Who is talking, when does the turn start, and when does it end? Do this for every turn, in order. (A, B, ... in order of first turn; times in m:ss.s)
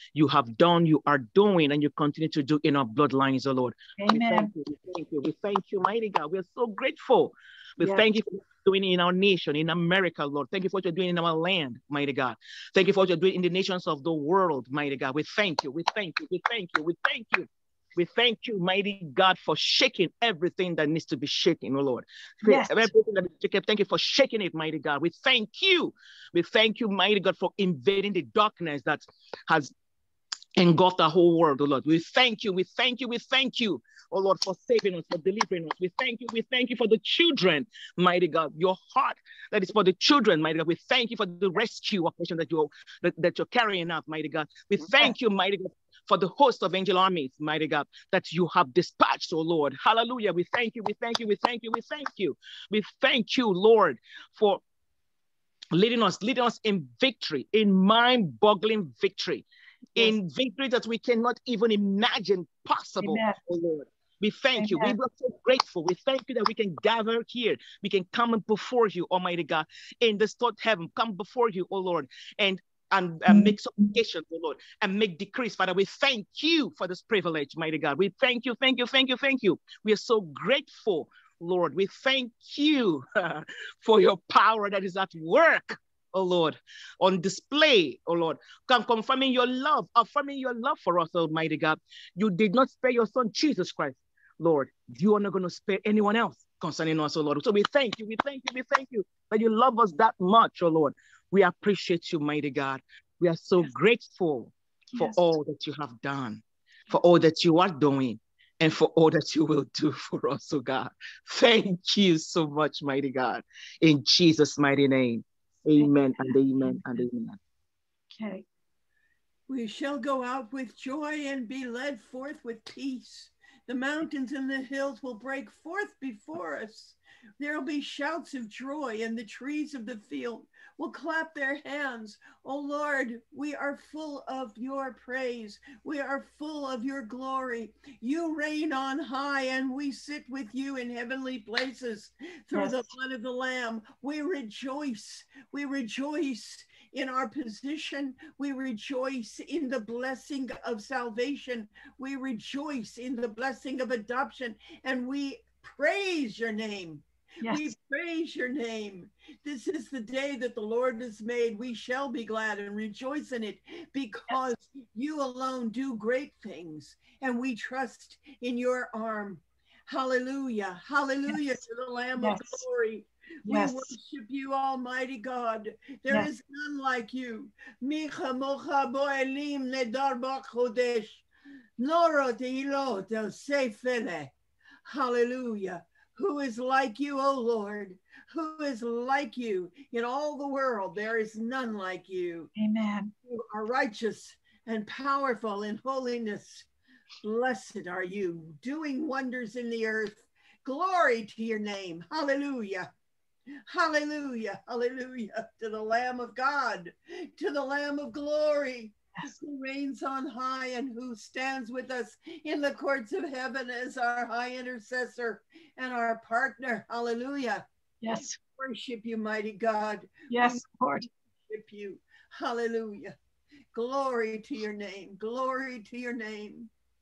0:00.1-0:29.7 A
0:04.0-0:04.5 B
0:07.8-0:08.1 B
0:22.4-0:22.9 B
0:30.6-0:54.6 A
0:55.7-0:59.4 A
1:00.0-1:57.4 A
1:03.0-1:03.4 B
1:04.6-1:05.0 B
1:44.9-1:45.3 B
1:55.8-1:57.0 B
1:58.1-1:58.4 B
1:59.5-3:01.2 C
2:22.5-2:22.9 B
2:37.4-2:37.7 B
2:51.3-2:51.6 B
2:52.2-2:52.6 B
2:53.4-2:53.9 B
3:01.8-3:04.3 C
3:04.8-3:12.5 C
3:12.5-3:13.1 B
3:13.3-3:16.6 C
3:17.2-3:22.9 C
3:23.6-3:40.6 C
3:38.0-3:38.4 B
3:40.3-3:41.1 B
3:41.5-3:43.1 C
3:43.7-3:46.7 C